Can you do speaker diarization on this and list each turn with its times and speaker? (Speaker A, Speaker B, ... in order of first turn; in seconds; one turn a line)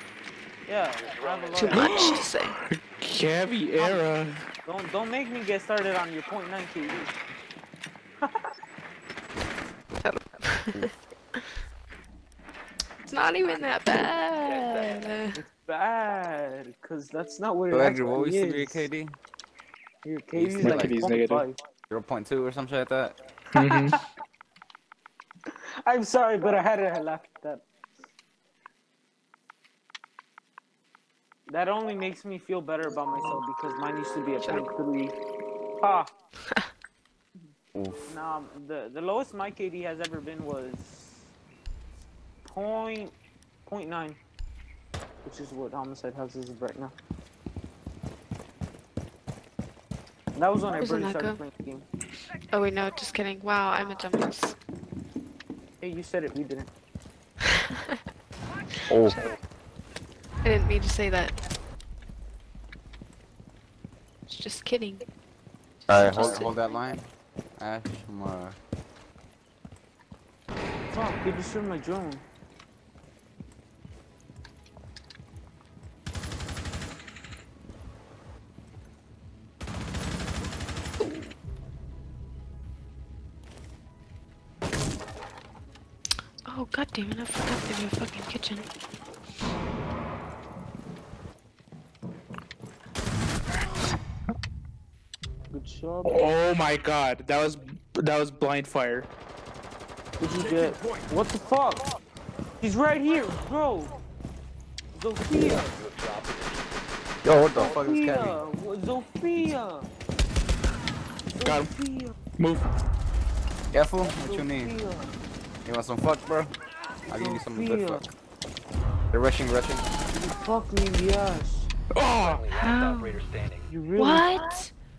Speaker A: 0.7-2.2
Speaker B: 1.0-2.2
Speaker C: 1.6-2.6
Speaker D: 1.7-4.5
Speaker A: 4.7-7.2
Speaker A: 8.2-8.5
Speaker C: 10.0-11.5
Speaker C: 13.1-15.4
Speaker B: 14.4-15.2
Speaker A: 15.3-18.9
Speaker E: 17.7-19.2
Speaker A: 20.0-21.6
Speaker E: 20.4-21.0
Speaker D: 20.6-21.5
Speaker E: 21.9-23.2
Speaker A: 23.5-24.0
Speaker D: 23.5-24.0
Speaker A: 25.5-27.6
Speaker A: 31.5-35.1
Speaker C: 34.4-34.7
Speaker A: 35.8-36.1
Speaker E: 37.7-38.0
Speaker A: 38.1-41.3
Speaker A: 42.4-43.1
Speaker A: 43.7-44.2
Speaker A: 45.2-46.9
Speaker A: 50.4-51.9
Speaker C: 50.7-51.4
Speaker C: 52.5-54.6
Speaker A: 55.8-56.7
Speaker C: 57.5-58.0
Speaker C: 58.9-59.3
Speaker E: 58.9-59.2
Speaker C: 60.4-61.4
Speaker C: 64.3-65.0
Speaker C: 65.8-66.6
Speaker E: 65.9-68.6
Speaker A: 70.9-72.2
Speaker C: 81.0-81.3
Speaker C: 86.5-88.7
Speaker A: 95.5-96.4
Speaker D: 96.0-99.1
Speaker A: 100.2-101.8
Speaker A: 102.6-104.0
Speaker A: 104.9-105.8
Speaker B: 105.6-106.8
Speaker E: 107.2-108.4
Speaker A: 107.5-109.9
Speaker A: 111.3-112.2
Speaker D: 111.5-111.7
Speaker D: 112.3-112.7
Speaker E: 113.7-114.8
Speaker A: 114.2-115.1
Speaker E: 115.7-116.5
Speaker E: 117.1-118.1
Speaker A: 117.1-118.0
Speaker E: 119.1-119.9
Speaker A: 120.1-121.7
Speaker D: 121.9-122.4
Speaker B: 122.1-123.7
Speaker C: 122.5-123.2
Speaker A: 123.7-124.4
Speaker C: 124.0-124.7